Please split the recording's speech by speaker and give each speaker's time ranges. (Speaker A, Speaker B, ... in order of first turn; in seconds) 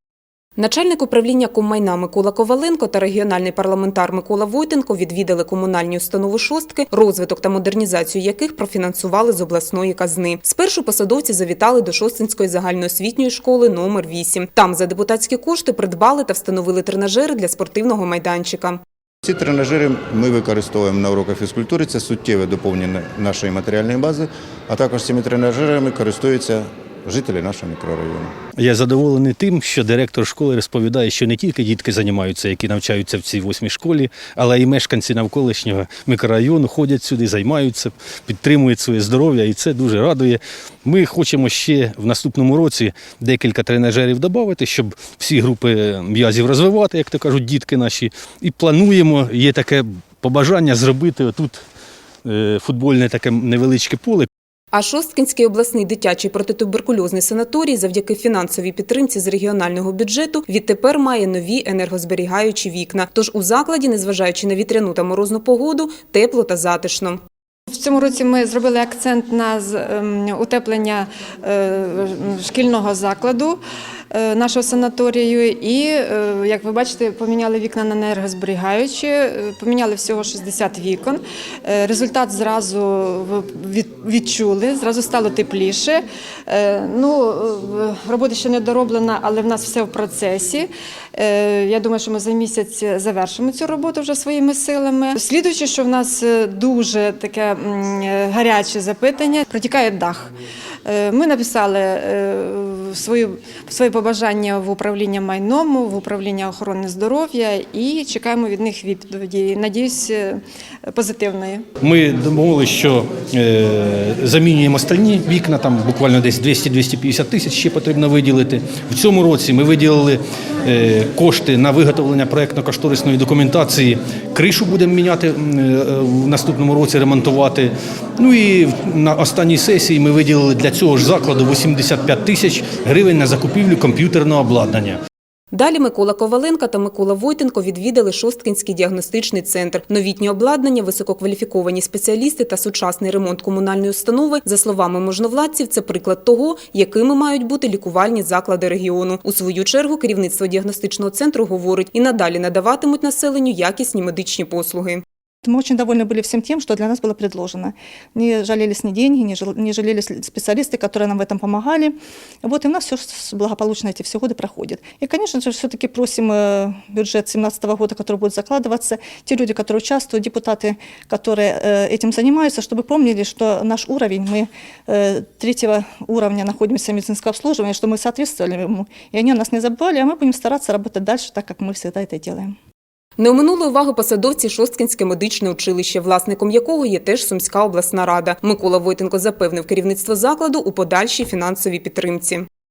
Speaker A: 0.6-18.8, 54.7-67.2, 135.5-155.0, 183.2-192.4
Speaker B: 19.2-28.3
Speaker C: 28.6-51.6, 52.2-54.3, 111.8-135.0
Speaker D: 67.7-73.6, 74.1-100.3, 100.8-111.6
Speaker E: 155.4-182.5